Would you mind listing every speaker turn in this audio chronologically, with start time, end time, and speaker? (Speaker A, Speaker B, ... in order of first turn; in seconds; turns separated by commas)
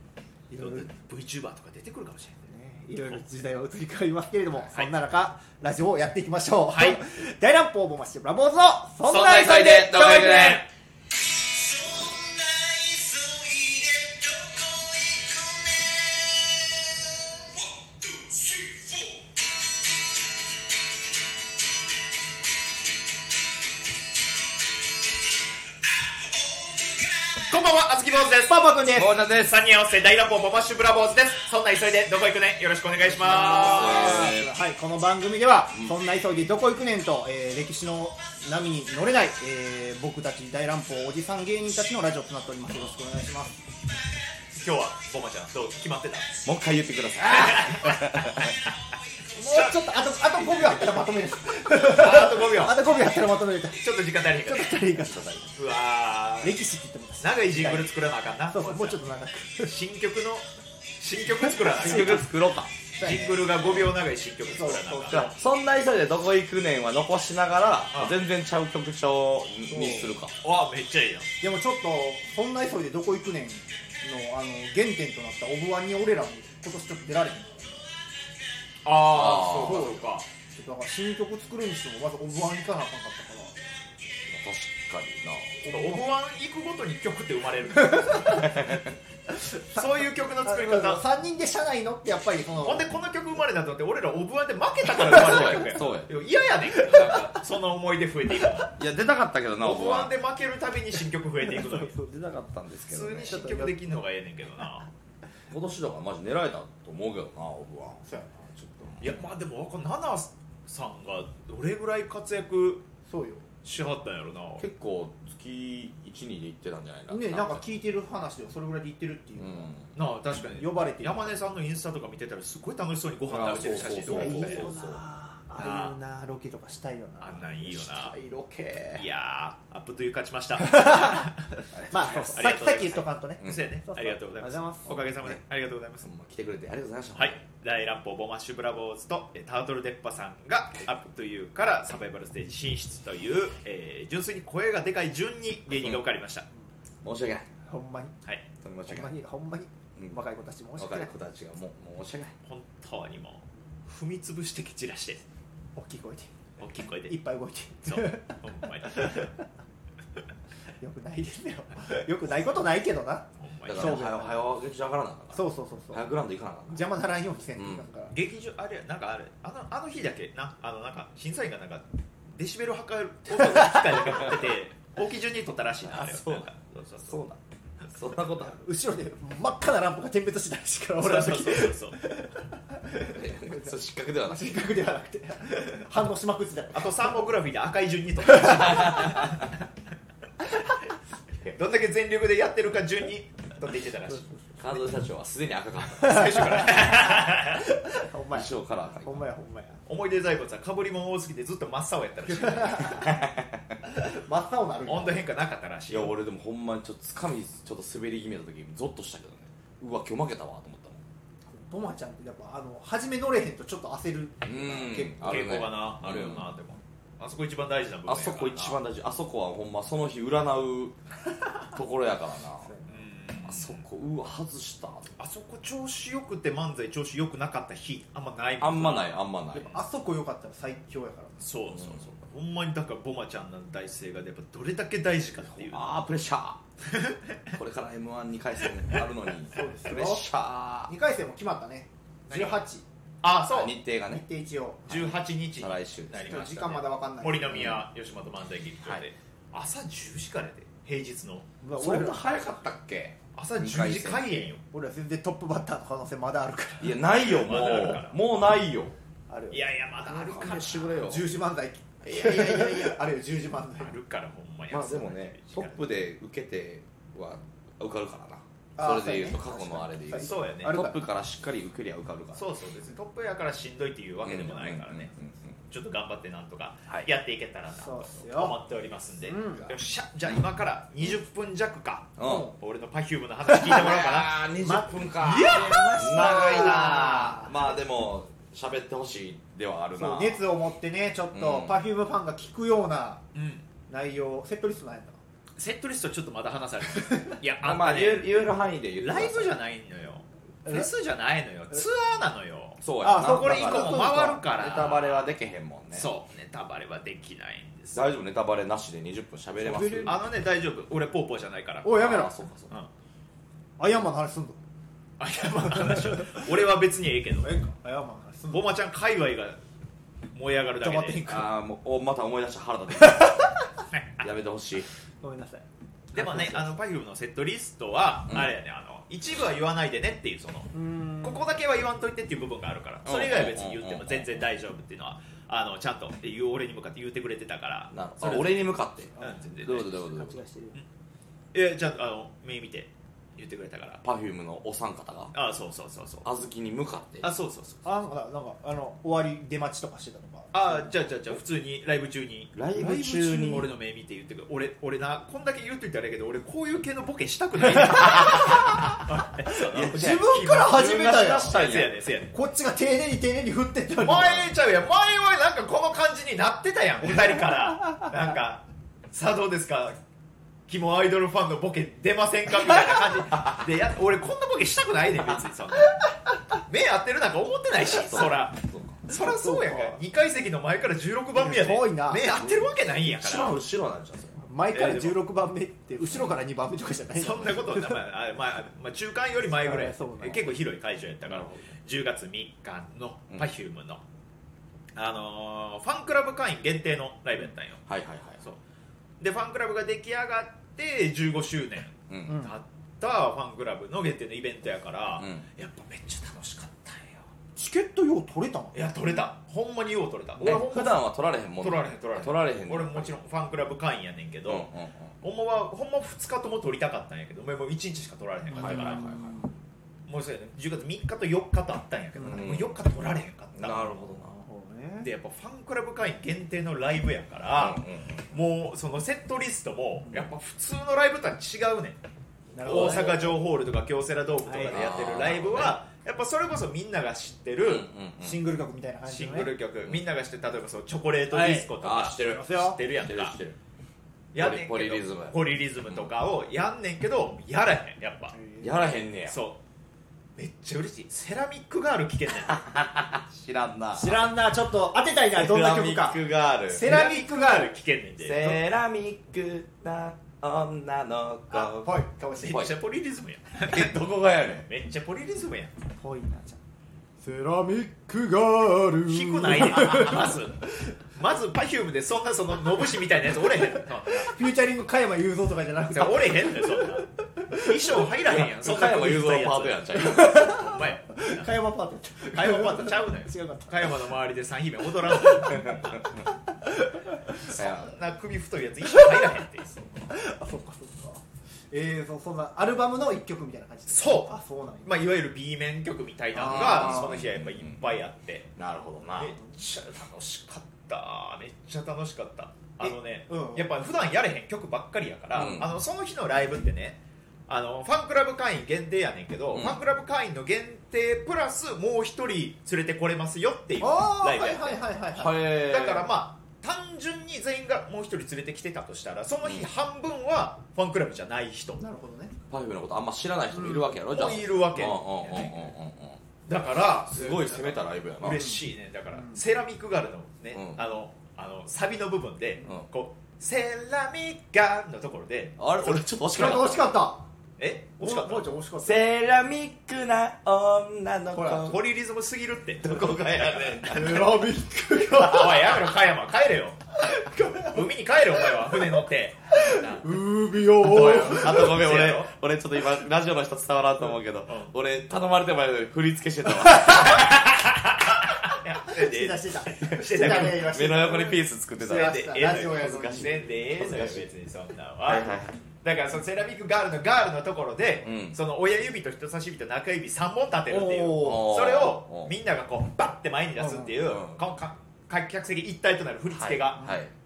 Speaker A: 0.5-0.9, Speaker B: 0.5-2.5, Speaker A: 2.5-10.6, Speaker B: 6.7-7.0, Speaker C: 9.0-10.7, Speaker B: 10.1-10.5, Speaker B: 11.9-14.2, Speaker B: 18.1-19.1, Speaker B: 27.4-34.2, Speaker A: 28.5-29.1, Speaker C: 28.9-29.5, Speaker A: 33.0-43.5, Speaker C: 33.3-34.5, Speaker B: 44.5-46.3, Speaker C: 46.4-48.5, Speaker B: 47.3-48.5, Speaker A: 49.3-53.9, Speaker B: 49.4-49.8, Speaker B: 51.8-52.8, Speaker B: 53.8-54.9, Speaker A: 54.4-55.5, Speaker C: 55.0-55.5, Speaker B: 55.5-56.6, Speaker A: 56.4-57.9, Speaker B: 57.2-59.0, Speaker A: 58.5-59.8, Speaker B: 59.6-60.5, Speaker B: 61.0-62.3, Speaker A: 61.7-62.2, Speaker C: 61.7-62.7, Speaker A: 63.0-63.4, Speaker B: 63.0-65.3, Speaker A: 64.5-65.3, Speaker C: 65.1-70.3, Speaker A: 69.7-70.2, Speaker B: 70.4-71.3, Speaker A: 71.4-77.8, Speaker B: 78.8-80.2, Speaker C: 79.1-79.9, Speaker A: 79.6-83.5, Speaker C: 84.2-85.6, Speaker B: 85.6-88.5, Speaker A: 85.7-86.0, Speaker A: 87.9-88.5, Speaker C: 88.2-88.9, Speaker B: 89.7-91.0, Speaker A: 90.4-92.9, Speaker B: 92.6-98.7, Speaker C: 95.0-96.1, Speaker A: 96.8-97.1, Speaker C: 98.7-100.1, Speaker B: 99.6-102.0, Speaker C: 101.8-103.4, Speaker B: 102.9-104.9, Speaker A: 103.3-103.8, Speaker C: 105.5-108.0, Speaker A: 108.0-109.0, Speaker B: 109.0-112.8, Speaker A: 113.1-113.5, Speaker B: 113.6-114.6, Speaker C: 114.6-117.6, Speaker A: 117.1-119.7, Speaker C: 119.4-119.9, Speaker B: 119.9-124.7, Speaker A: 120.5-121.4, Speaker C: 123.3-125.0, Speaker A: 124.0-127.9, Speaker B: 125.6-126.0, Speaker B: 127.2-128.1, Speaker C: 127.8-129.0, Speaker B: 128.9-136.1, Speaker A: 130.6-131.3, Speaker C: 131.7-132.4, Speaker A: 131.9-135.3, Speaker C: 133.4-133.7, Speaker C: 136.0-137.4, Speaker B: 137.1-146.4, Speaker C: 145.7-146.0, Speaker C: 147.0-147.5, Speaker A: 147.7-148.1, Speaker C: 148.6-149.1, Speaker A: 148.9-151.1, Speaker C: 150.8-152.3, Speaker B: 152.4-155.2, Speaker A: 155.8-156.3, Speaker B: 156.6-157.2, Speaker A: 157.1-159.3, Speaker B: 157.8-159.3, Speaker A: 160.8-164.4, Speaker B: 163.4-164.0, Speaker C: 163.7-166.9, Speaker A: 165.3-166.1, Speaker A: 166.7-168.2, Speaker C: 167.6-167.8, Speaker B: 168.1-177.2, Speaker C: 173.9-174.4, Speaker C: 175.9-176.5, Speaker C: 177.0-177.4, Speaker C: 177.9-178.6, Speaker A: 178.6-187.2, Speaker B: 181.0-182.0, Speaker C: 183.1-184.6, Speaker B: 186.7-189.5, Speaker B: 191.5-194.3, Speaker A: 194.1-194.4, Speaker C: 194.6-196.7, Speaker B: 196.0-197.6, Speaker A: 196.0-198.5, Speaker C: 198.3-199.2, Speaker A: 199.0-199.8, Speaker B: 199.9-203.0, Speaker A: 202.3-203.2, Speaker C: 202.9-203.7, Speaker A: 203.8-205.2, Speaker B: 204.8-206.1, Speaker C: 205.9-211.0, Speaker A: 211.5-215.5, Speaker C: 214.4-216.5, Speaker B: 215.2-218.8, Speaker C: 218.1-220.9, Speaker C: 221.7-222.7, Speaker A: 222.7-222.9, Speaker B: 222.9-223.8, Speaker C: 223.4-225.2, Speaker B: 225.2-229.8, Speaker C: 228.6-229.7, Speaker A: 229.5-231.5, Speaker B: 231.4-235.8, Speaker C: 231.7-232.1, Speaker C: 235.5-236.6, Speaker C: 237.5-240.9, Speaker A: 239.5-240.2, Speaker A: 240.9-242.8, Speaker B: 242.3-242.6, Speaker B: 243.2-243.8, Speaker C: 243.5-244.2, Speaker A: 244.1-245.1, Speaker B: 244.9-251.5, Speaker C: 244.9-246.4, Speaker A: 246.2-247.8, Speaker C: 247.5-247.8, Speaker A: 251.6-252.3, Speaker C: 251.8-254.4, Speaker B: 253.3-254.6, Speaker A: 254.7-257.0, Speaker C: 256.8-258.9, Speaker B: 257.2-258.2, Speaker A: 259.3-259.6, Speaker B: 259.5-261.1, Speaker C: 260.1-261.3, Speaker A: 261.0-263.9, Speaker C: 262.0-263.0, Speaker B: 263.8-265.8, Speaker C: 264.7-272.4, Speaker A: 268.8-271.0, Speaker B: 270.2-270.7, Speaker B: 272.3-275.1, Speaker C: 274.2-275.5, Speaker B: 275.7-284.4, Speaker A: 277.8-278.6, Speaker A: 279.2-279.8, Speaker C: 282.2-282.5, Speaker A: 282.2-282.6, Speaker C: 283.5-290.4, Speaker A: 284.6-287.5, Speaker B: 285.2-287.1, Speaker A: 289.9-293.2, Speaker C: 291.3-291.8, Speaker B: 293.3-293.6, Speaker A: 293.9-295.2, Speaker B: 295.6-298.4, Speaker A: 297.0-297.3, Speaker C: 297.6-299.6, Speaker B: 299.0-305.3, Speaker C: 302.8-306.1, Speaker A: 303.0-304.4, Speaker B: 305.9-308.1, Speaker C: 307.9-310.2, Speaker A: 309.6-310.2, Speaker B: 310.0-312.1, Speaker A: 311.8-312.3, Speaker C: 311.9-312.7, Speaker A: 313.8-314.6, Speaker B: 315.2-317.5, Speaker A: 315.7-316.5, Speaker A: 317.4-318.7, Speaker B: 318.5-319.6, Speaker B: 320.3-321.4, Speaker A: 320.8-321.5, Speaker C: 321.2-323.6, Speaker B: 323.9-324.2, Speaker C: 324.2-324.9, Speaker A: 325.2-325.6, Speaker B: 326.1-339.9, Speaker C: 326.1-326.6, Speaker A: 326.2-326.6, Speaker A: 330.7-331.4, Speaker C: 333.0-334.5, Speaker C: 337.9-340.4, Speaker A: 339.1-340.8, Speaker B: 341.5-344.0, Speaker C: 344.0-345.3, Speaker B: 345.3-346.2, Speaker C: 346.2-347.3, Speaker B: 347.2-347.8, Speaker A: 347.8-350.9, Speaker B: 350.5-362.3, Speaker C: 352.5-353.7, Speaker A: 357.9-358.8, Speaker C: 358.1-358.9, Speaker C: 359.6-361.9, Speaker A: 359.9-361.6, Speaker A: 362.3-364.4, Speaker B: 364.0-370.0, Speaker B: 370.7-383.6, Speaker C: 377.9-379.0, Speaker A: 379.1-380.0, Speaker A: 381.3-382.2, Speaker C: 382.3-384.4, Speaker A: 384.4-388.0, Speaker B: 384.7-385.2, Speaker C: 386.0-386.4, Speaker B: 387.1-394.0, Speaker A: 389.6-390.5, Speaker C: 391.2-391.7, Speaker B: 394.9-397.8, Speaker C: 397.9-398.4, Speaker B: 399.2-407.2, Speaker C: 402.1-402.4, Speaker A: 402.2-402.5, Speaker C: 405.2-405.4, Speaker A: 407.6-409.2, Speaker B: 408.7-411.0, Speaker C: 410.4-413.1, Speaker B: 411.6-414.7, Speaker C: 414.4-415.1, Speaker B: 415.2-419.1, Speaker A: 418.5-419.5, Speaker C: 418.6-419.4, Speaker B: 420.1-424.1, Speaker A: 422.2-422.4, Speaker C: 422.2-422.8, Speaker C: 423.5-424.4, Speaker A: 424.3-425.1, Speaker B: 425.0-432.0, Speaker C: 427.6-428.3, Speaker A: 432.5-433.4, Speaker C: 432.6-433.2, Speaker B: 432.6-437.9, Speaker A: 434.4-434.8, Speaker C: 434.6-435.8, Speaker C: 437.6-438.4, Speaker A: 438.2-439.5, Speaker B: 439.1-443.4, Speaker A: 441.3-441.7, Speaker C: 441.8-443.6, Speaker A: 442.3-442.8, Speaker B: 444.3-448.3, Speaker C: 444.4-446.1, Speaker A: 448.3-448.9, Speaker C: 448.6-449.4, Speaker B: 449.3-449.6, Speaker B: 450.4-452.6, Speaker C: 452.4-454.2, Speaker A: 453.9-457.7, Speaker C: 455.3-456.9, Speaker B: 456.8-458.6, Speaker C: 458.2-462.7, Speaker A: 461.5-462.7, Speaker B: 462.4-464.0, Speaker C: 463.7-464.7, Speaker B: 464.6-465.7, Speaker A: 466.0-466.6, Speaker A: 467.2-470.4, Speaker B: 469.1-474.4, Speaker A: 474.1-477.9, Speaker B: 475.9-481.5, Speaker C: 478.2-480.5, Speaker A: 479.9-484.0, Speaker B: 482.3-486.1, Speaker A: 485.2-485.6, Speaker C: 485.5-485.8, Speaker A: 486.6-487.5, Speaker B: 487.4-490.1, Speaker C: 487.5-487.9, Speaker A: 488.9-489.2, Speaker A: 490.1-495.0, Speaker B: 493.9-498.5, Speaker A: 496.3-497.2, Speaker C: 496.4-497.9, Speaker C: 498.6-499.4, Speaker B: 499.2-521.8, Speaker A: 502.8-503.7, Speaker C: 505.3-505.7, Speaker C: 509.5-509.8, Speaker A: 513.8-515.4, Speaker C: 515.1-516.1, Speaker C: 519.4-519.7, Speaker A: 521.8-522.3, Speaker C: 522.5-526.2, Speaker A: 523.5-523.9, Speaker B: 524.1-525.7, Speaker B: 526.5-536.7, Speaker C: 527.0-528.4, Speaker A: 528.3-528.6, Speaker A: 529.1-529.4, Speaker C: 530.5-530.8, Speaker C: 535.6-536.8, Speaker A: 536.3-537.2, Speaker B: 537.6-538.5, Speaker A: 538.0-539.1, Speaker C: 538.8-541.8, Speaker A: 541.3-541.7, Speaker B: 541.5-544.0, Speaker C: 542.8-544.5, Speaker A: 543.9-545.7, Speaker B: 545.1-546.8, Speaker A: 547.0-547.8, Speaker B: 547.5-550.0, Speaker A: 549.5-551.7, Speaker C: 550.8-557.3, Speaker B: 550.9-552.3, Speaker B: 554.5-554.7, Speaker B: 557.0-561.0, Speaker A: 558.9-563.4, Speaker C: 560.1-564.2, Speaker B: 561.8-576.9, Speaker C: 565.0-565.5, Speaker C: 568.0-568.4, Speaker A: 570.7-571.5, Speaker C: 571.1-572.3, Speaker A: 573.6-573.9, Speaker C: 574.0-574.4, Speaker C: 576.3-577.1